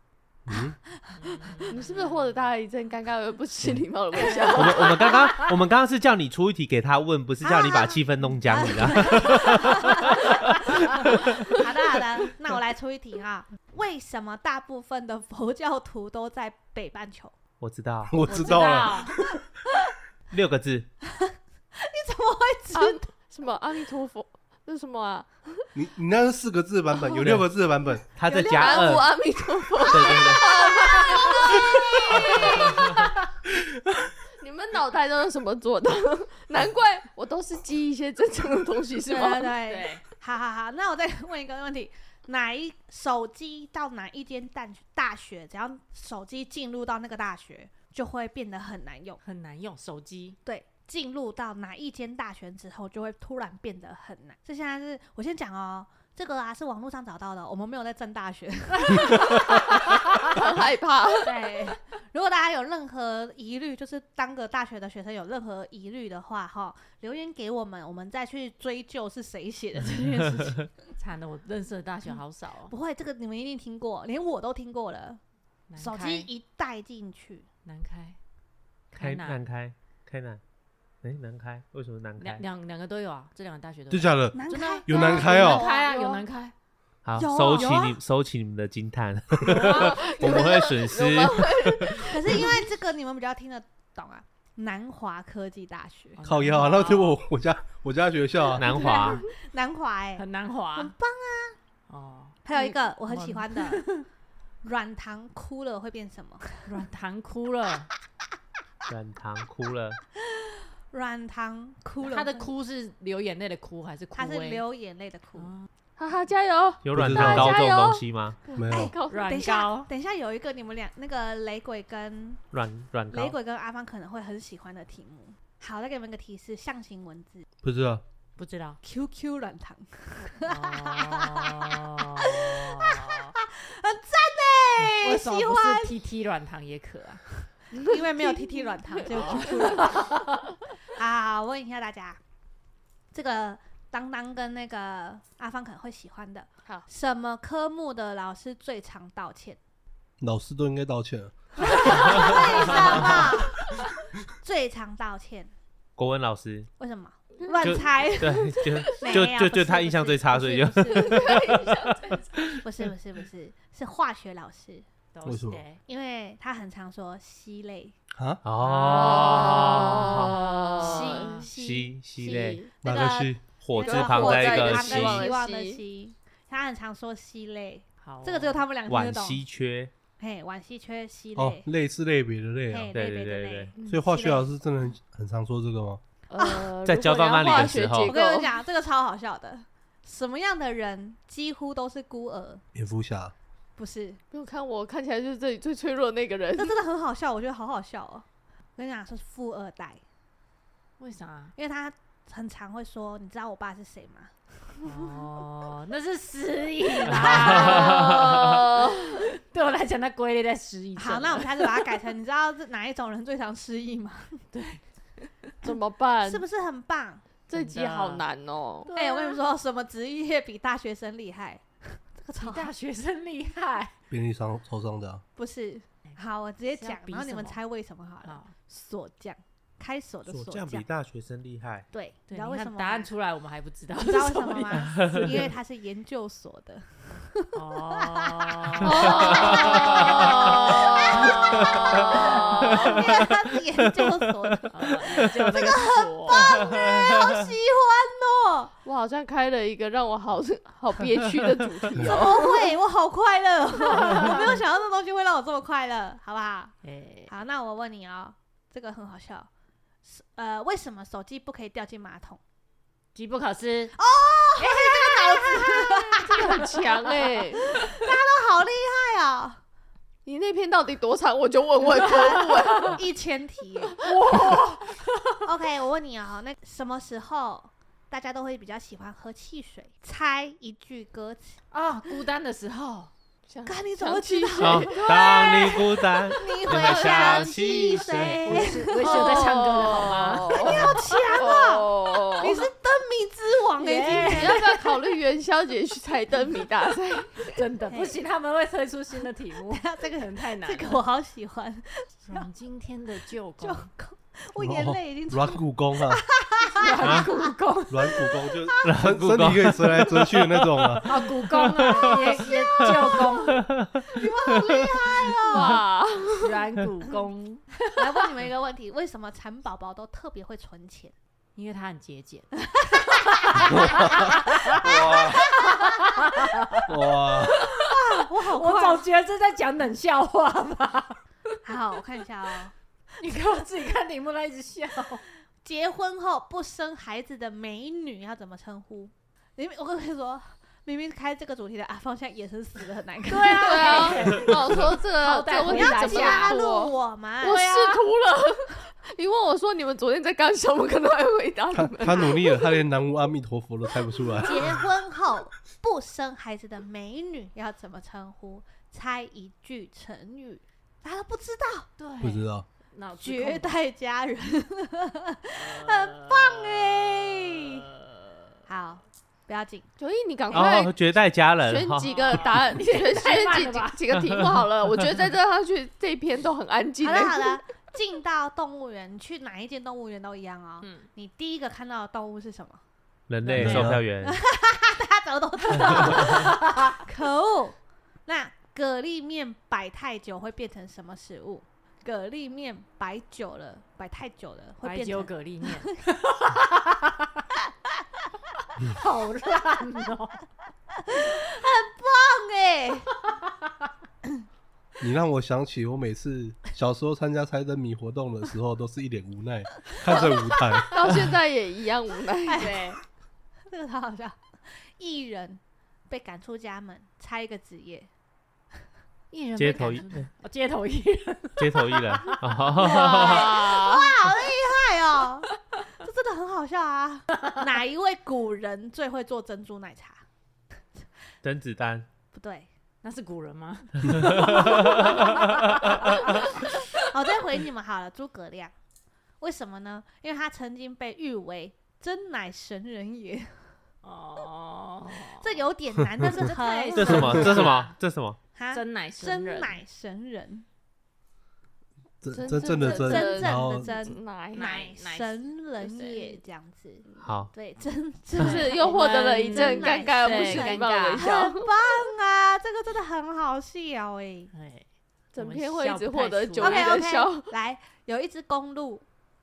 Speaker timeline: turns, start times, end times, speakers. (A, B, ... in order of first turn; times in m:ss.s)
0:00.4-0:00.7 A
0:00.6-0:01.6 B
0:01.2-0:02.3 C
0:01.7-0:05.0 D
0:04.1-0:05.6 C
0:04.2-0:04.5 B
0:04.6-0:11.6 E
0:07.4-0:17.4 B
0:17.6-0:18.3 E
0:18.1-0:19.2 A
0:18.2-0:19.1 C
0:20.3-0:20.9 E
0:21.1-0:23.0 B
0:22.7-0:25.7 D
0:25.7-0:28.1 A
0:28.1-0:29.2 E
0:28.2-0:29.0 B
0:28.5-0:33.0 D
0:29.8-0:30.5 E
0:29.9-0:32.8 B
0:30.8-0:33.2 C
0:32.3-0:32.9 E
0:34.4-0:39.6 D
0:39.1-0:49.2 B
0:39.6-0:40.0 C
0:49.2-0:50.4 C
0:50.4-1:00.5 B
0:58.9-0:59.6 C
1:00.3-1:01.3 D
1:01.2-1:10.9 B
1:01.2-1:01.8 C
1:11.0-1:12.7 C
1:12.7-1:15.2 B
1:15.7-1:16.3 C
1:15.8-1:17.5 B
1:17.6-1:18.2 C
1:18.9-1:19.4 C
1:18.9-1:20.4 E
1:21.0-1:22.4 E
1:22.2-1:26.5 C
1:23.9-1:25.6 A
1:24.4-1:25.9 B
1:25.0-1:26.2 D
1:27.0-1:32.1 E
1:27.2-1:28.0 B
1:29.4-1:30.1 C
1:29.7-1:32.5 D
1:32.0-1:36.2 B
1:36.2-1:37.2 C
1:36.2-1:38.7 A
1:38.5-1:39.3 E
1:38.7-1:39.3 D
1:38.7-1:40.2 B
1:40.2-1:40.9 C
1:40.7-1:41.6 B
1:41.9-1:44.0 C
1:42.4-1:43.9 B
1:44.6-1:46.7 B
1:46.6-1:47.9 C
1:48.9-1:50.0 E
1:50.3-1:52.5 B
1:52.0-1:54.6 C
1:54.1-1:55.5 B
1:55.4-1:55.7 C
1:56.0-1:59.4 D
1:56.8-1:58.4 E
1:56.9-1:57.5 A
1:58.6-1:58.9 A
1:58.6-2:02.4 B
1:59.1-1:59.9 C
2:02.5-2:03.4 E
2:03.1-2:07.4 B
2:07.6-2:08.0 A
2:08.4-2:08.8 C
2:08.8-2:15.9 B
2:10.4-2:13.3 C
2:15.0-2:17.2 C
2:17.8-2:20.2 B
2:17.8-2:19.8 D
2:19.1-2:20.4 C
2:20.9-2:22.2 B
2:23.1-2:29.6 B
2:30.2-2:31.9 A
2:31.6-2:33.7 B
2:31.8-2:33.1 C
2:32.1-2:33.0 E
2:34.4-2:35.5 B
2:36.0-2:36.7 E
2:36.8-2:41.6 B
2:37.6-2:42.6 E
2:38.3-2:39.2 D
2:40.9-2:42.2 D
2:42.6-2:44.8 B
2:45.1-2:45.8 C
2:45.2-2:45.6 A
2:45.8-2:48.0 B
2:48.1-2:48.4 A
2:48.4-2:50.5 E
2:48.6-2:51.5 C
2:48.8-2:51.4 D
2:50.7-2:59.4 B
2:51.4-2:52.7 E
2:52.2-2:52.7 D
2:52.8-2:53.4 A
2:53.4-2:55.3 E
2:53.8-2:55.8 D
2:58.0-2:58.6 C
2:58.9-2:59.9 E
3:00.2-3:01.7 B
3:01.4-3:02.9 A
3:02.7-3:04.5 B
3:02.9-3:03.7 E
3:03.8-3:04.0 D
3:03.9-3:06.0 A
3:06.3-3:08.6 D
3:06.4-3:06.7 B
3:06.8-3:08.2 E
3:08.0-3:12.6 B
3:12.7-3:13.3 A
3:13.8-3:14.2 B
3:14.3-3:16.8 D
3:16.6-3:20.0 B
3:21.0-3:21.5 C
3:21.6-3:25.2 B
3:24.8-3:32.1 C
3:27.1-3:28.1 B
3:27.1-3:28.6 E
3:27.7-3:29.2 D
3:31.0-3:34.4 B
3:34.5-3:35.5 C
3:35.6-3:36.4 D
3:36.2-3:37.2 B
3:37.5-3:38.9 D
3:37.5-3:38.2 C
3:38.9-3:42.7 B
3:38.9-3:39.4 C
3:42.4-3:43.9 C
3:44.1-3:45.2 A
3:45.4-3:50.9 B
3:46.7-3:47.6 C
3:48.2-3:48.5 C
3:50.3-3:51.9 E
3:51.9-3:53.1 B
3:52.3-3:55.2 C
3:54.0-4:08.7 B
3:54.9-3:55.3 E
3:57.5-4:02.4 C
3:58.8-4:03.0 D
3:58.9-4:00.4 E
4:01.4-4:04.5 E
4:04.7-4:06.6 C
4:06.3-4:07.4 E
4:08.8-4:12.7 D
4:12.0-4:16.7 B
4:13.9-4:14.4 C
4:16.8-4:17.3 C
4:17.3-4:19.5 B
4:20.0-4:22.4 B
4:23.1-4:23.9 C
4:23.9-4:26.8 B
4:24.6-4:26.7 C
4:26.3-4:27.7 D
4:27.6-4:29.6 B
4:30.2-4:33.0 D
4:31.9-4:34.0 B
4:34.0-4:35.2 C
4:35.4-4:41.6 B
4:41.7-4:43.1 C
4:43.5-4:45.8 D
4:43.6-4:54.7 B
4:44.6-4:48.6 E
4:46.6-4:47.5 D
4:48.2-4:51.4 C
4:48.9-4:52.6 D
4:53.8-4:54.9 C
4:54.1-4:57.4 D
4:57.5-5:01.0 C
4:57.9-4:58.2 B
4:59.7-5:02.5 B
5:02.3-5:03.9 C
5:03.6-5:07.5 B
5:04.6-5:06.2 A
5:06.8-5:08.3 C
5:07.0-5:07.3 E
5:07.9-5:11.0 A
5:08.5-5:15.3 E
5:11.0-5:13.6 C
5:11.6-5:13.5 B
5:14.1-5:15.8 B
5:15.4-5:16.6 D
5:16.4-5:17.8 C
5:18.0-5:21.1 B
5:21.6-5:22.5 C
5:22.7-5:24.2 B
5:23.4-5:31.2 C
5:23.7-5:25.5 A
5:24.8-5:26.0 B
5:26.8-5:27.6 A
5:27.6-5:29.0 B
5:31.6-5:32.7 B
5:33.2-5:35.2 C
5:35.6-5:44.5 B
5:43.3-5:46.6 C
5:43.5-5:52.5 D
5:45.5-5:48.0 B
5:51.7-5:54.8 A
5:52.1-5:52.4 B
5:54.4-6:01.9 B
6:02.0-6:03.7 C
6:02.2-6:02.6 A
6:03.2-6:07.8 B
6:05.5-6:08.3 C
6:08.7-6:09.9 B
6:10.0-6:10.9 D
6:10.5-6:12.5 E
6:11.6-6:17.6 D
6:12.0-6:14.0 C
6:14.3-6:14.6 E
6:17.0-6:22.8 B
6:20.8-6:21.1 C
6:23.3-6:24.4 E
6:23.4-6:24.0 C
6:23.5-6:24.0 A
6:24.2-6:35.3 B
6:25.7-6:26.9 C
6:25.8-6:26.3 E
6:34.8-6:37.4 C
6:38.8-6:40.4 C
6:41.0-6:43.2 B
6:45.0-6:51.2 A
6:50.5-6:50.8 B
6:50.9-6:52.8 D
6:52.4-6:52.8 B
6:52.6-6:53.0 C
6:53.7-6:54.4 B
6:55.0-6:58.1 B
6:59.3-7:02.4 C
6:59.6-7:00.3 E
7:01.6-7:03.6 E
7:02.2-7:10.2 B
7:02.8-7:04.1 D
7:11.4-7:12.1 E
7:12.3-7:12.7 B
7:13.0-7:16.7 C
7:14.0-7:16.4 E
7:15.8-7:18.7 B
7:19.4-7:23.7 B
7:24.0-7:27.9 C
7:25.3-7:27.8 B
7:26.9-7:28.4 E
7:28.5-7:30.6 B
7:28.7-7:29.8 C
7:32.2-7:33.9 A
7:32.3-7:34.7 D
7:32.7-7:44.5 B
7:34.5-7:36.4 C
7:37.2-7:37.5 E
7:38.4-7:41.3 C
7:38.4-7:42.1 D
7:44.5-7:44.8 C
7:45.3-7:47.5 D
7:45.4-7:47.0 C
7:46.6-7:49.0 B